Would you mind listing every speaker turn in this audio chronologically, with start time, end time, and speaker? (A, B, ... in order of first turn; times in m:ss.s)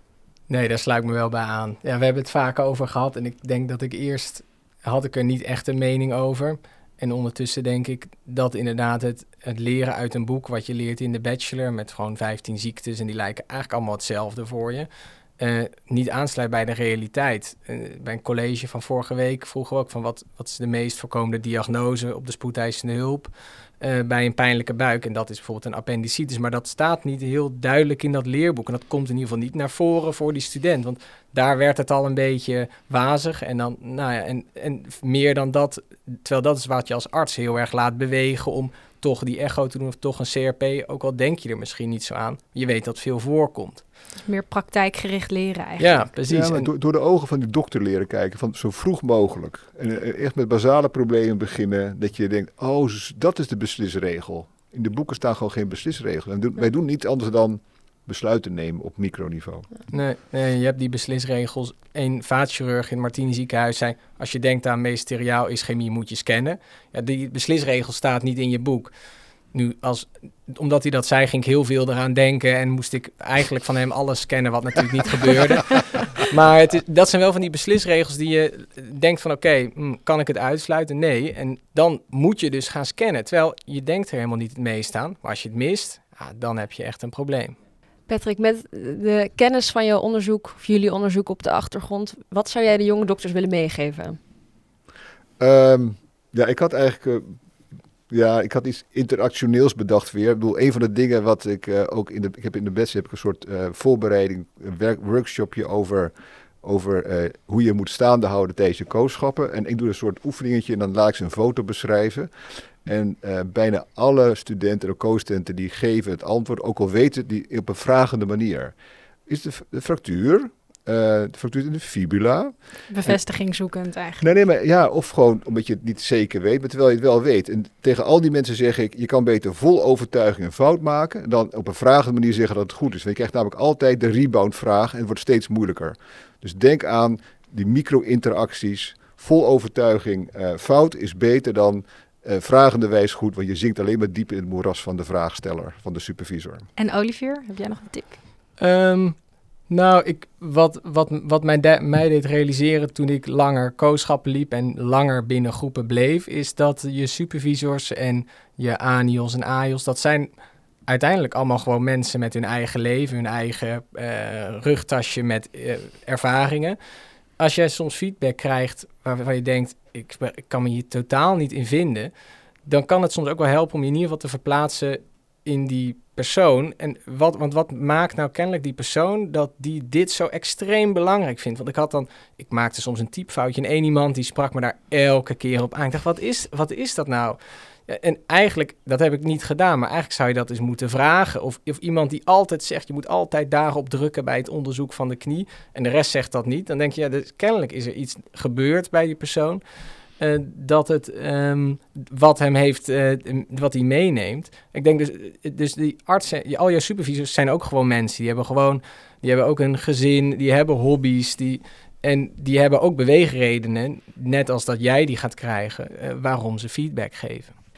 0:00.5-0:14.9 A
0:15.4-0:43.8 A
0:44.2-0:46.1 B
0:45.8-0:46.7 A
0:46.3-0:59.7 C
0:59.9-1:08.9 A
1:09.5-1:27.6 A
1:28.1-1:34.2 D
1:35.4-1:37.3 C
1:38.1-1:52.3 C
1:52.8-1:58.7 C
1:59.3-2:03.2 C
2:02.9-2:04.2 B
2:04.2-2:26.6 C
2:26.8-2:28.2 B
2:28.6-2:29.2 A
2:29.7-2:40.3 A
2:40.9-2:46.8 A
2:47.4-2:52.1 A
2:52.6-3:19.6 A
3:20.2-3:37.5 A